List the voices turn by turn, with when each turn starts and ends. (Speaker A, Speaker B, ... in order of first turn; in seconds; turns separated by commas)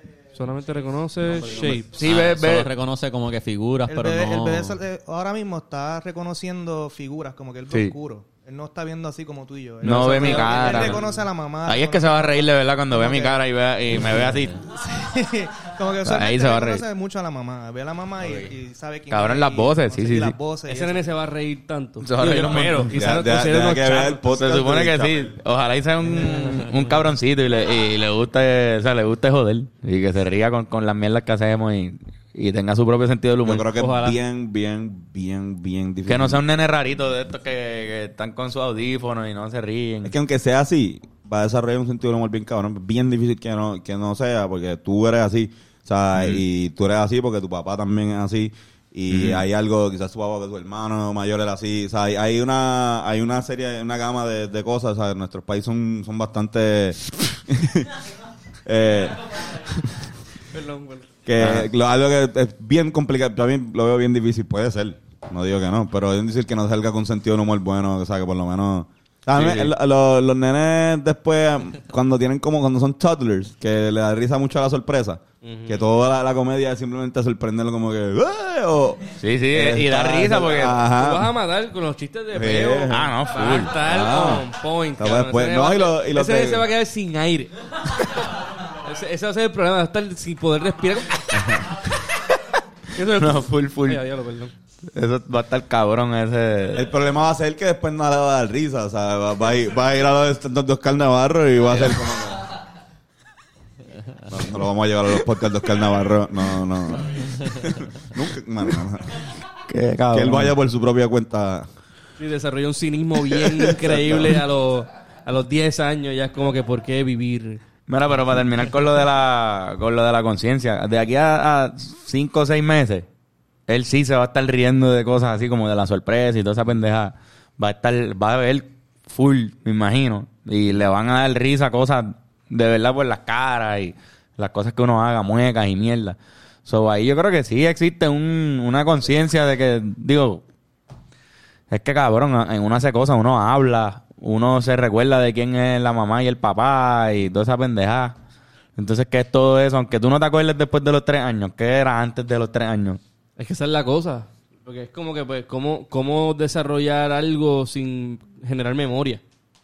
Speaker A: 0.3-1.9, Speaker B: 1.3-1.8, Speaker C: 1.3-4.8, Speaker D: 1.8-2.7, Speaker B: 3.9-13.4, Speaker D: 7.7-8.0, Speaker D: 9.8-11.0, Speaker A: 10.2-10.5, Speaker D: 11.7-14.6, Speaker B: 14.0-21.1, Speaker D: 16.0-16.8, Speaker C: 18.2-18.5, Speaker D: 19.1-20.4, Speaker A: 20.7-24.2, Speaker D: 22.0-22.9, Speaker E: 22.9-25.3, Speaker D: 24.2-33.7, Speaker C: 26.2-26.8, Speaker E: 33.4-36.4, Speaker D: 36.0-40.1, Speaker E: 40.0-57.9, Speaker D: 49.1-49.4, Speaker E: 58.6-59.9, Speaker A: 60.5-61.1, Speaker E: 61.2-81.3, Speaker D: 61.4-61.7, Speaker D: 69.3-69.7, Speaker A: 75.4-75.9, Speaker D: 79.2-80.8, Speaker A: 80.9-88.3, Speaker E: 82.3-83.1, Speaker D: 82.9-83.8, Speaker E: 83.8-86.7, Speaker A: 88.8-91.8, Speaker A: 92.9-94.5, Speaker D: 93.0-94.0, Speaker D: 94.9-96.9, Speaker E: 96.7-102.5, Speaker E: 104.3-109.2, Speaker D: 109.7-110.5, Speaker E: 110.1-111.7, Speaker A: 112.2-117.6, Speaker E: 113.3-114.4, Speaker D: 117.9-123.1, Speaker D: 123.7-140.4, Speaker D: 141.7-148.2, Speaker D: 148.8-153.0, Speaker A: 153.4-159.2